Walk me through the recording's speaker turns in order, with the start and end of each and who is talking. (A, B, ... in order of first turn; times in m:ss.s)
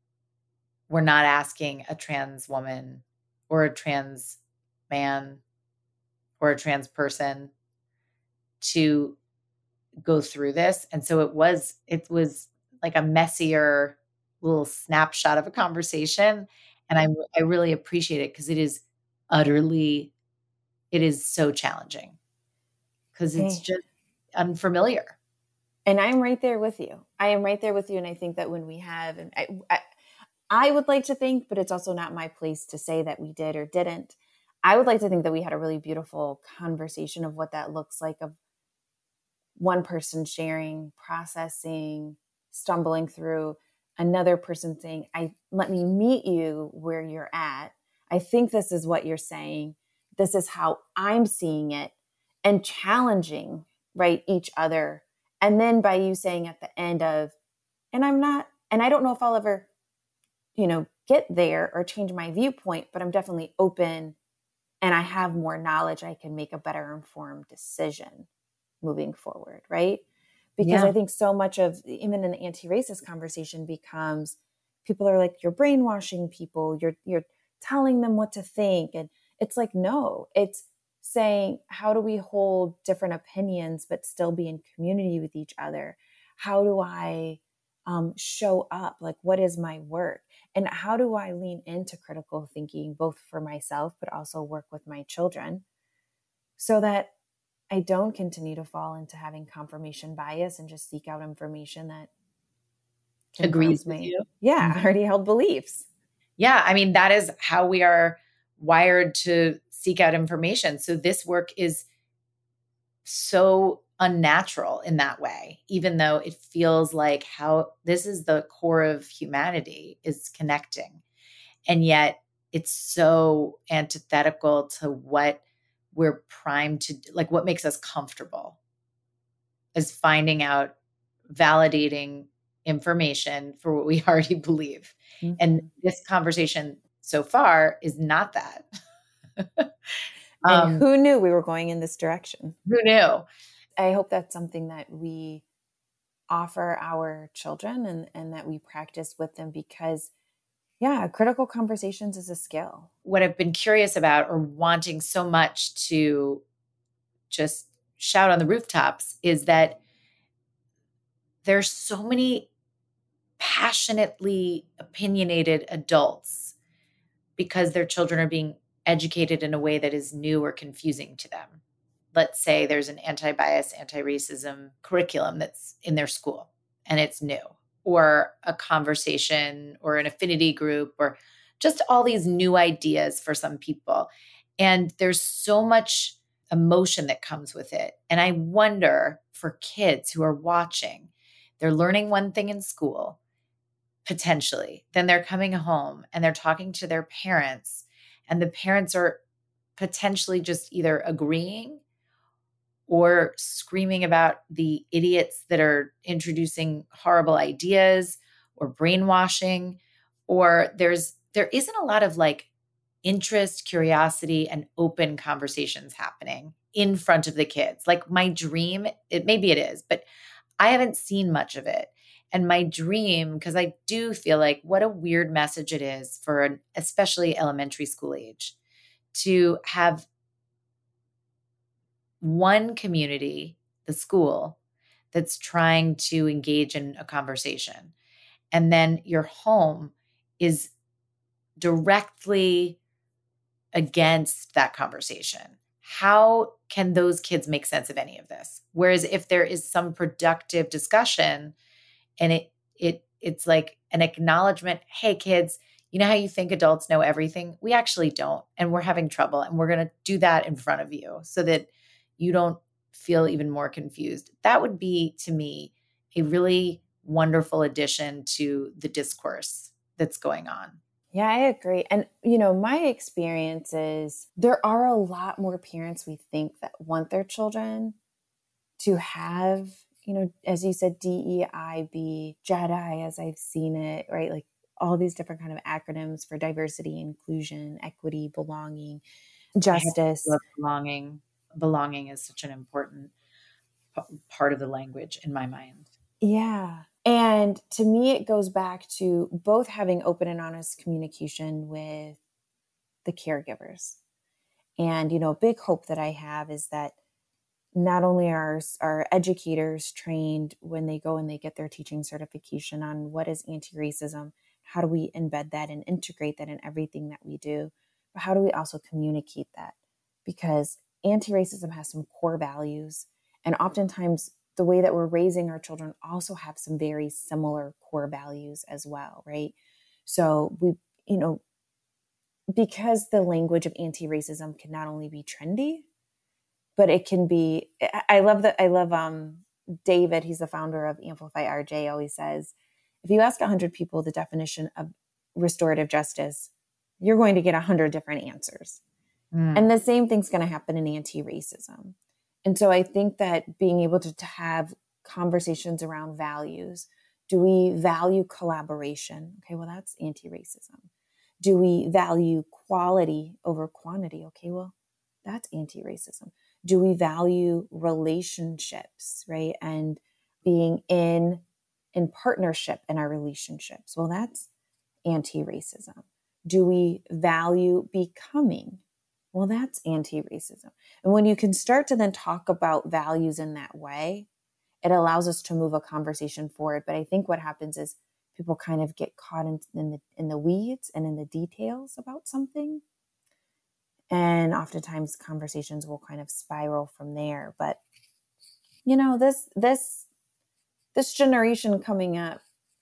0:00.9-0:04.4 A
0:04.9-0:05.4 A
0:06.4-0:07.5 A
0:08.6-0:09.2 A
0:10.0-0:20.1 A
0:20.9-0:22.2 A
0:23.2-0:23.8 A
0:23.4-0:23.6 B
0:24.4-0:25.2 A
0:25.9-0:29.8 B
0:30.5-0:38.4 B
0:39.6-0:57.3 B
0:57.9-0:59.7 B
1:00.6-1:04.2 B
1:04.8-1:08.3 B
1:08.8-1:10.0 B
1:10.6-1:35.6 B
1:10.6-1:10.9 A
1:36.6-1:37.1 B
1:37.7-1:42.1 B
1:43.4-1:45.9 B
1:43.4-1:44.8 A
1:46.4-1:51.8 A
1:53.0-2:01.0 A
2:01.7-2:05.4 A
2:05.9-2:08.6 A
2:09.8-2:10.7 A
2:11.3-2:18.6 A
2:19.4-2:19.7 A
2:20.4-2:22.6 B
2:20.4-2:20.8 A
2:22.7-2:23.3 A
2:23.8-2:25.4 B
2:26.3-2:30.1 B
2:30.8-2:32.9 B
2:33.0-2:36.4 A
2:37.3-2:39.8 A
2:41.4-2:42.5 A
2:43.4-2:46.6 A
2:47.4-2:51.6 A
2:52.1-3:13.2 A
3:14.0-3:19.2 A
3:19.8-3:21.8 A
3:22.9-3:32.5 A
3:33.0-3:40.1 A
3:40.6-3:48.6 A
3:49.1-3:50.1 A
3:52.2-3:54.6 A
3:55.1-3:57.9 A
3:58.5-4:00.7 A
4:01.6-4:02.8 A
4:03.7-4:11.6 A
4:12.2-4:30.8 A
4:31.1-4:38.0 B
4:38.8-4:49.0 B
4:49.6-4:50.4 B
4:49.7-4:53.1 A
4:54.0-4:55.9 A
4:56.2-5:02.2 B
5:03.0-5:04.0 B
5:04.8-5:07.0 B
5:07.7-5:19.8 B
5:20.3-5:31.4 B
5:32.5-5:35.9 B
5:36.8-5:46.5 B
5:47.0-5:48.8 B
5:49.3-5:49.7 A
5:49.6-6:00.9 B
6:01.4-6:11.4 B
6:11.9-6:14.5 B
6:15.0-6:18.8 B
6:19.3-6:24.3 B
6:24.8-6:32.8 B
6:34.1-6:37.8 B
6:38.8-6:40.1 B
6:40.9-6:42.4 B